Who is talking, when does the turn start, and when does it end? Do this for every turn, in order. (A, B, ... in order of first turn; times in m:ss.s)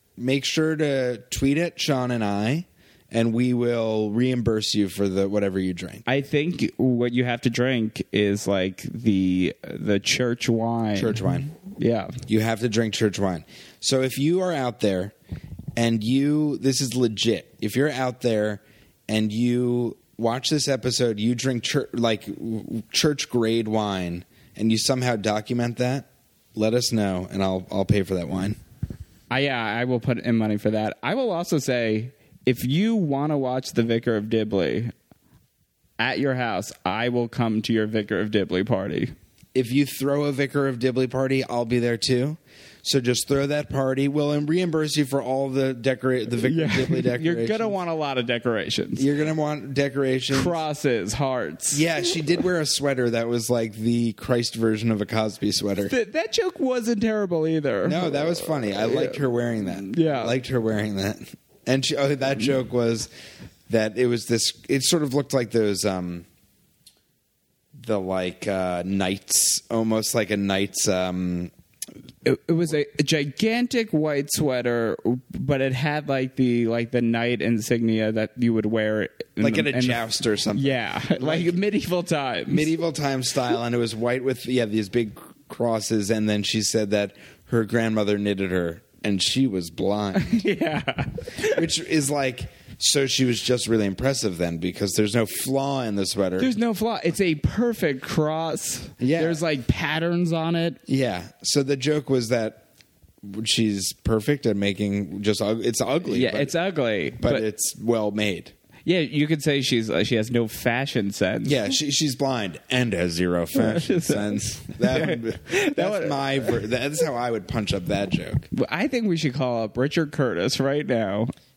0:00.2-0:06.0 A
0:06.1-0:11.2 B
0:11.0-0:11.5 A
0:11.8-0:12.1 B
0:12.3-0:15.1 A
0:15.8-0:28.6 A
0:29.3-0:34.9 B
0:36.0-0:39.1 B
0:39.6-0:47.7 A
0:46.4-0:49.0 B
0:49.0-0:50.6 A
0:50.3-0:51.8 B
0:51.7-0:55.9 A
0:55.9-1:00.3 B
0:57.8-1:03.1 A
1:03.7-1:06.3 A
1:07.8-1:11.5 A
1:12.2-1:22.7 B
1:19.4-1:21.6 A
1:22.5-1:30.4 A
1:30.2-1:31.6 B
1:31.4-1:36.5 A
1:36.4-1:40.8 B
1:39.0-1:39.4 A
1:40.9-1:42.7 A
1:43.2-1:46.5 A
1:46.1-1:47.4 B
1:47.2-1:48.5 A
1:48.8-1:51.6 B
1:51.4-1:58.5 A
1:53.5-1:56.6 B
1:58.5-2:01.3 B